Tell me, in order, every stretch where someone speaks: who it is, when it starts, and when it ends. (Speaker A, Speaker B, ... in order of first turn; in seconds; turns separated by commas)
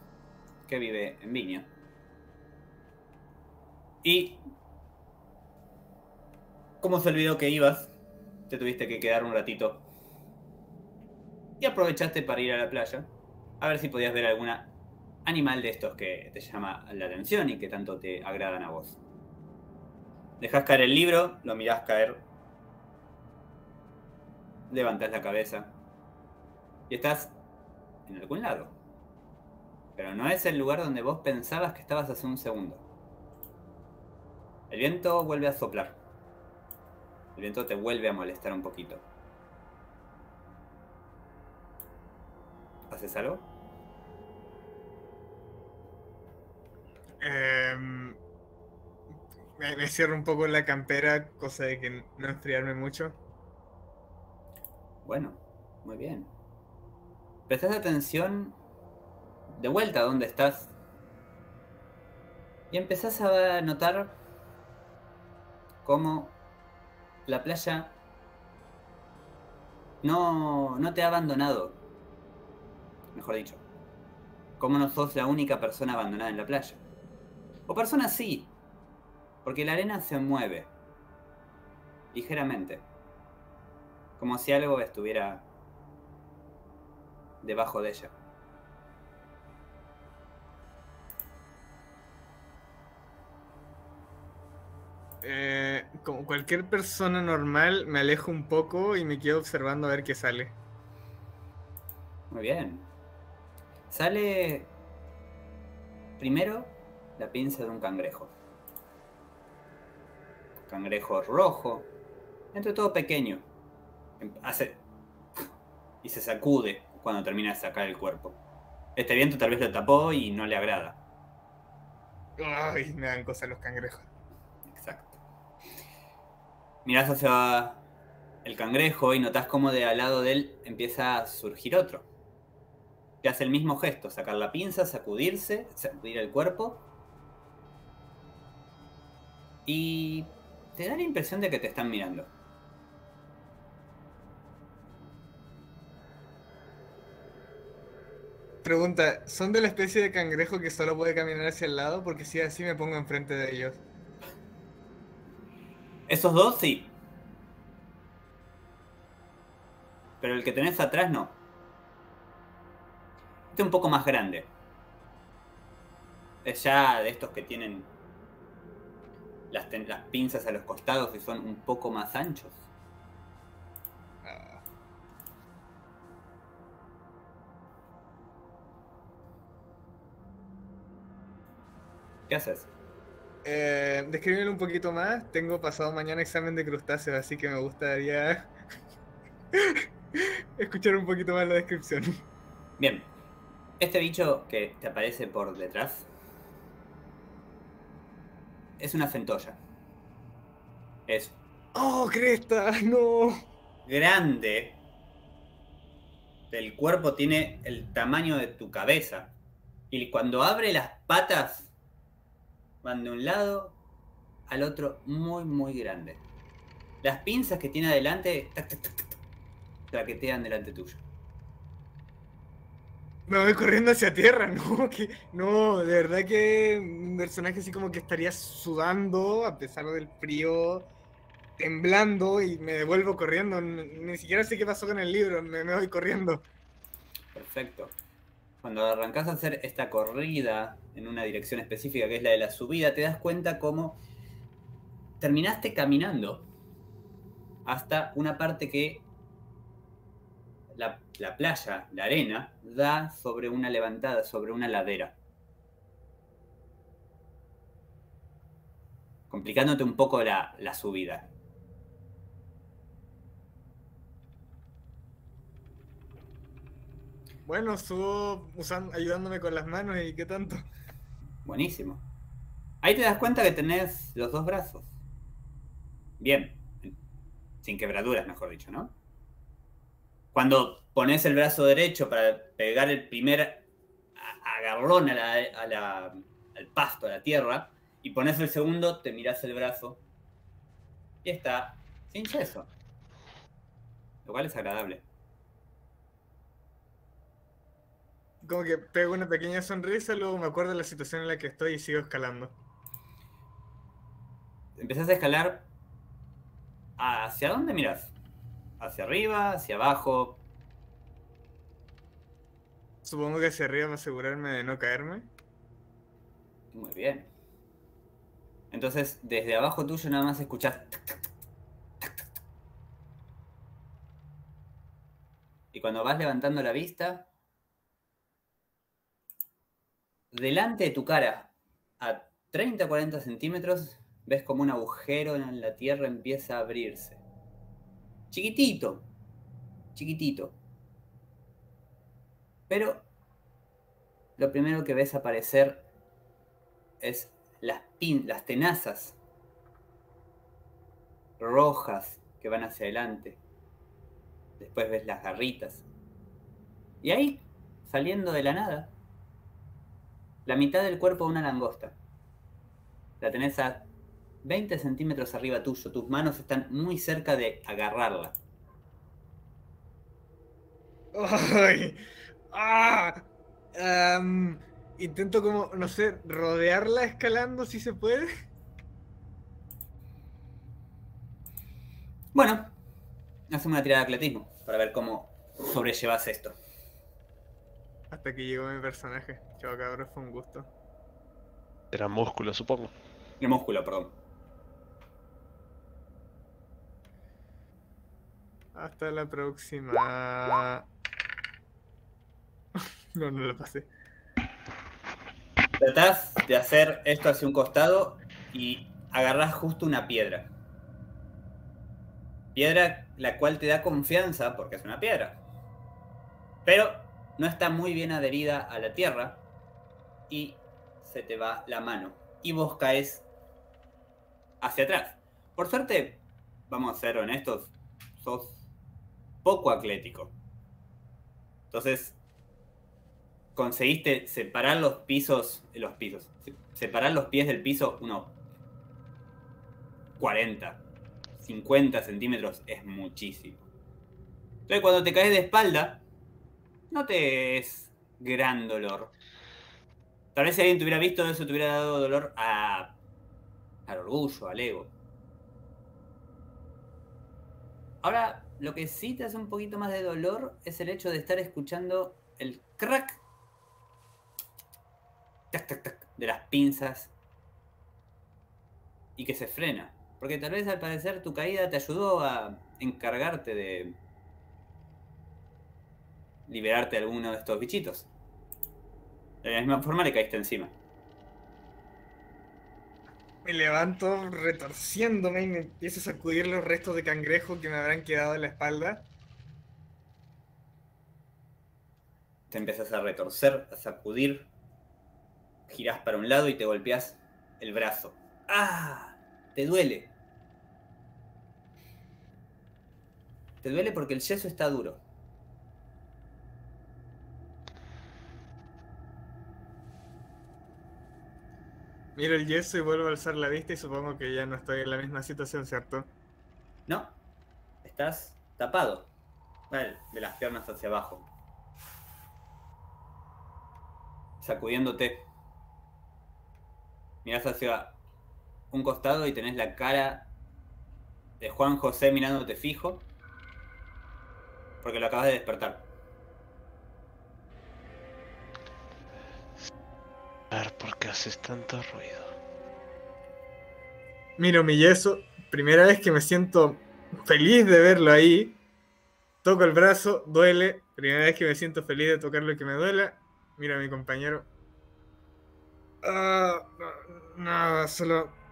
Speaker A: 0.7-1.7, Speaker A: 4.0-4.4, Speaker A: 6.8-7.9, Speaker A: 8.5-9.8, Speaker A: 11.6-14.7, Speaker A: 15.2-19.0, Speaker A: 20.4-22.2, Speaker A: 24.7-25.7, Speaker A: 26.9-27.4, Speaker A: 28.1-28.8, Speaker A: 30.0-32.8, Speaker A: 34.7-36.0, Speaker A: 37.4-39.0, Speaker A: 42.9-43.5, Speaker B: 47.2-48.2, Speaker B: 49.6-53.2, Speaker A: 55.0-56.3, Speaker A: 57.5-58.6, Speaker A: 59.5-60.7, Speaker A: 62.7-64.2, Speaker A: 65.8-66.4, Speaker A: 67.3-68.0, Speaker A: 70.0-71.8, Speaker A: 73.1-73.6, Speaker A: 74.6-76.8, Speaker A: 77.7-78.5, Speaker A: 79.4-80.7, Speaker A: 82.1-82.8, Speaker A: 84.2-85.5, Speaker A: 87.4-88.1, Speaker B: 95.2-100.5, Speaker A: 102.3-102.9, Speaker A: 103.9-104.7, Speaker A: 106.2-108.3, Speaker A: 110.7-111.9, Speaker A: 112.5-113.5, Speaker A: 114.2-114.8, Speaker A: 116.0-118.4, Speaker A: 119.0-121.0, Speaker B: 122.4-124.1, Speaker A: 124.7-125.2, Speaker A: 126.8-127.8, Speaker A: 128.4-132.1, Speaker A: 133.2-136.8, Speaker A: 139.7-142.3, Speaker B: 148.6-153.8, Speaker A: 156.1-156.9, Speaker A: 160.2-161.4, Speaker A: 163.5-164.5, Speaker A: 166.4-167.9, Speaker A: 169.5-172.7, Speaker B: 174.2-174.6, Speaker A: 182.3-182.7, Speaker B: 183.4-188.5, Speaker B: 189.5-192.2, Speaker A: 192.8-193.1, Speaker A: 193.8-196.1, Speaker A: 198.8-199.6, Speaker A: 201.1-201.4, Speaker B: 201.7-203.4, Speaker A: 203.8-204.8, Speaker A: 206.5-209.3, Speaker A: 209.9-211.7, Speaker A: 212.8-213.8, Speaker A: 214.5-216.2, Speaker A: 217.0-219.2, Speaker A: 219.9-221.0, Speaker B: 223.3-230.9, Speaker B: 231.6-236.4, Speaker A: 237.3-237.9, Speaker A: 238.6-244.0, Speaker A: 245.2-246.5, Speaker A: 247.7-249.1, Speaker A: 250.7-255.2, Speaker A: 259.3-261.3, Speaker B: 267.4-270.7, Speaker A: 271.4-272.0, Speaker A: 272.8-274.9, Speaker A: 276.2-277.0, Speaker A: 277.6-278.9, Speaker A: 280.3-283.6, Speaker A: 284.2-290.0, Speaker A: 291.2-292.7, Speaker A: 294.2-295.1, Speaker B: 298.4-302.6, Speaker A: 304.8-305.7, Speaker A: 307.0-308.1, Speaker A: 308.8-310.4, Speaker B: 313.0-315.3, Speaker A: 316.7-317.3, Speaker A: 318.7-321.3, Speaker A: 322.0-322.3, Speaker A: 325.7-327.3, Speaker A: 330.3-337.2, Speaker A: 338.3-339.1, Speaker A: 339.9-340.6, Speaker A: 342.7-343.1, Speaker A: 344.4-345.9, Speaker A: 347.0-349.2, Speaker A: 351.4-353.4, Speaker A: 354.6-355.9, Speaker A: 357.0-358.9, Speaker A: 360.5-362.0, Speaker A: 363.2-363.9, Speaker A: 364.4-368.4, Speaker B: 371.1-378.5, Speaker A: 382.3-382.7, Speaker A: 383.5-386.6, Speaker B: 388.1-390.7, Speaker C: 391.9-392.9, Speaker A: 393.4-394.1, Speaker B: 398.7-400.9, Speaker B: 402.8-403.9, Speaker A: 405.8-410.5, Speaker A: 412.6-415.4, Speaker A: 416.6-419.4, Speaker A: 420.3-423.3, Speaker A: 424.6-428.6, Speaker A: 429.4-430.4, Speaker A: 431.7-432.2, Speaker A: 433.6-438.3, Speaker A: 440.2-440.8, Speaker A: 441.4-443.6, Speaker A: 444.7-446.0, Speaker A: 446.9-449.1, Speaker A: 450.4-453.0, Speaker A: 453.9-454.9, Speaker A: 458.0-463.2, Speaker A: 465.5-467.1, Speaker A: 469.2-474.0, Speaker A: 476.5-478.1, Speaker A: 479.4-480.7, Speaker B: 483.4-489.1, Speaker A: 492.5-494.5, Speaker A: 495.7-500.1, Speaker A: 503.6-505.0, Speaker B: 512.2-516.1, Speaker A: 516.9-517.1, Speaker A: 517.8-519.1, Speaker A: 519.7-521.3, Speaker A: 524.4-525.3, Speaker A: 527.2-528.0, Speaker A: 528.7-530.3, Speaker A: 531.4-533.1, Speaker A: 534.8-535.9, Speaker C: 540.5-542.4, Speaker B: 544.4-548.6, Speaker B: 549.4-554.5, Speaker B: 556.0-558.4